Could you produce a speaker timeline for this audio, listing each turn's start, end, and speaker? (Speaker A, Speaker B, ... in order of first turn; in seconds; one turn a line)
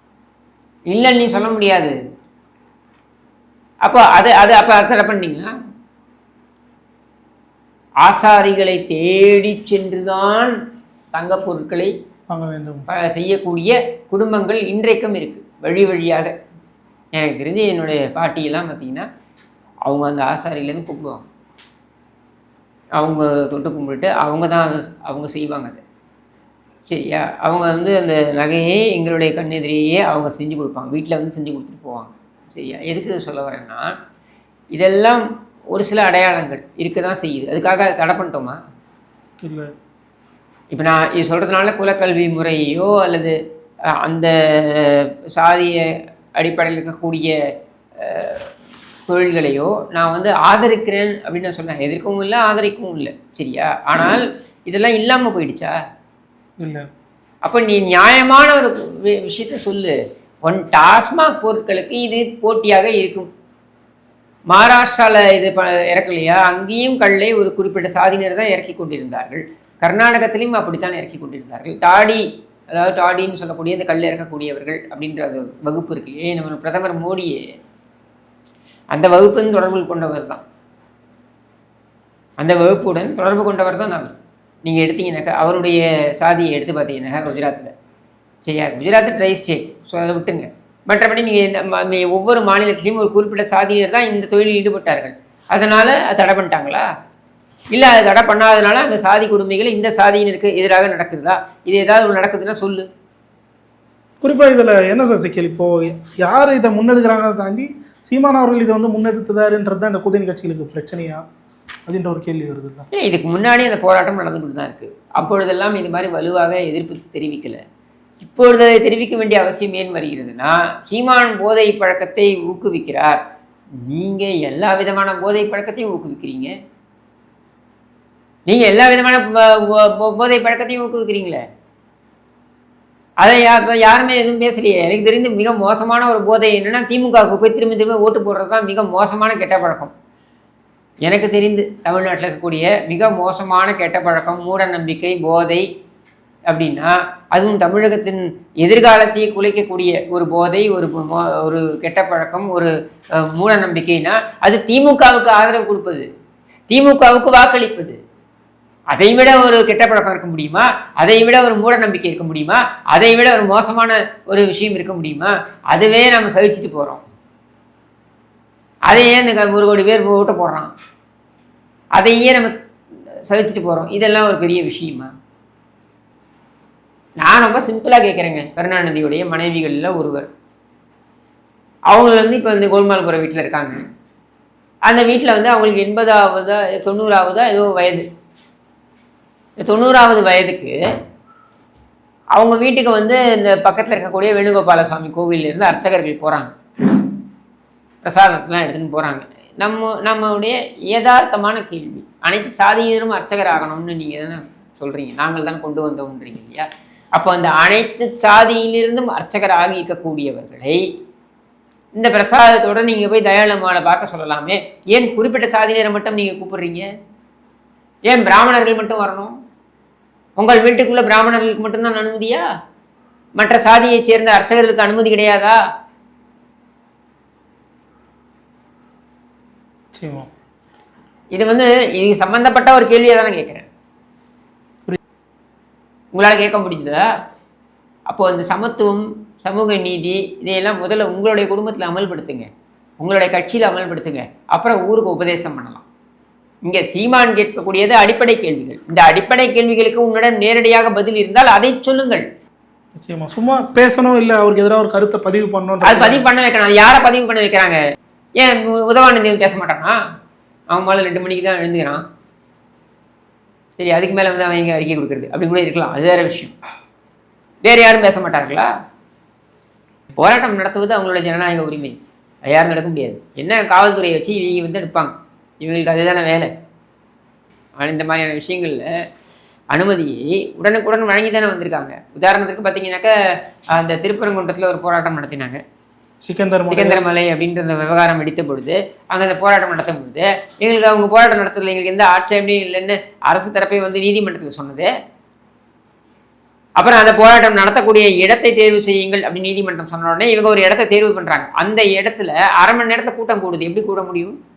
Speaker A: 0.9-2.0
Speaker A: 3.8-5.5
Speaker A: 8.0-10.6
Speaker A: 11.1-11.9
Speaker B: 12.3-12.9
Speaker A: 12.9-16.3
Speaker A: 17.1-19.1
Speaker A: 19.8-21.2
Speaker A: 23.0-25.8
Speaker A: 26.9-33.9
Speaker A: 34.7-38.6
Speaker B: 39.4-39.7
Speaker A: 40.7-43.4
Speaker A: 44.0-45.8
Speaker A: 46.4-47.3
Speaker A: 48.0-48.5
Speaker A: 49.1-55.8
Speaker B: 56.6-56.8
Speaker A: 57.4-63.3
Speaker A: 64.5-77.5
Speaker A: 78.9-80.4
Speaker A: 82.4-87.7
Speaker A: 88.4-96.9
Speaker A: 97.7-102.9
Speaker B: 104.2-111.2
Speaker B: 111.9-112.8
Speaker A: 112.9-117.6
Speaker A: 118.2-123.2
Speaker A: 123.8-126.5
Speaker A: 128.5-131.4
Speaker A: 133.2-139.9
Speaker A: 141.0-145.7
Speaker A: 146.5-156.1
Speaker A: 156.7-158.0
Speaker A: 158.9-167.0
Speaker A: 168.9-170.7
Speaker A: 171.9-172.6
Speaker A: 173.3-175.1
Speaker A: 177.2-180.3
Speaker A: 181.9-183.8
Speaker A: 184.8-188.0
Speaker A: 189.6-190.7
Speaker A: 192.3-196.6
Speaker A: 198.0-210.9
Speaker A: 211.9-216.9
Speaker A: 218.1-219.3
Speaker A: 220.4-222.4
Speaker A: 223.4-225.6
Speaker B: 229.9-230.3
Speaker A: 231.3-233.7
Speaker A: 236.1-237.1
Speaker A: 238.1-242.5
Speaker A: 243.0-245.8
Speaker A: 246.6-252.2
Speaker B: 252.9-256.2
Speaker A: 255.8-257.8
Speaker A: 258.4-260.0
Speaker A: 260.7-262.0
Speaker A: 263.7-266.5
Speaker A: 267.6-268.7
Speaker A: 270.2-276.5
Speaker A: 277.8-278.9
Speaker A: 279.7-283.1
Speaker A: 283.7-285.6
Speaker B: 286.2-287.0
Speaker A: 286.7-294.9
Speaker A: 296.8-304.4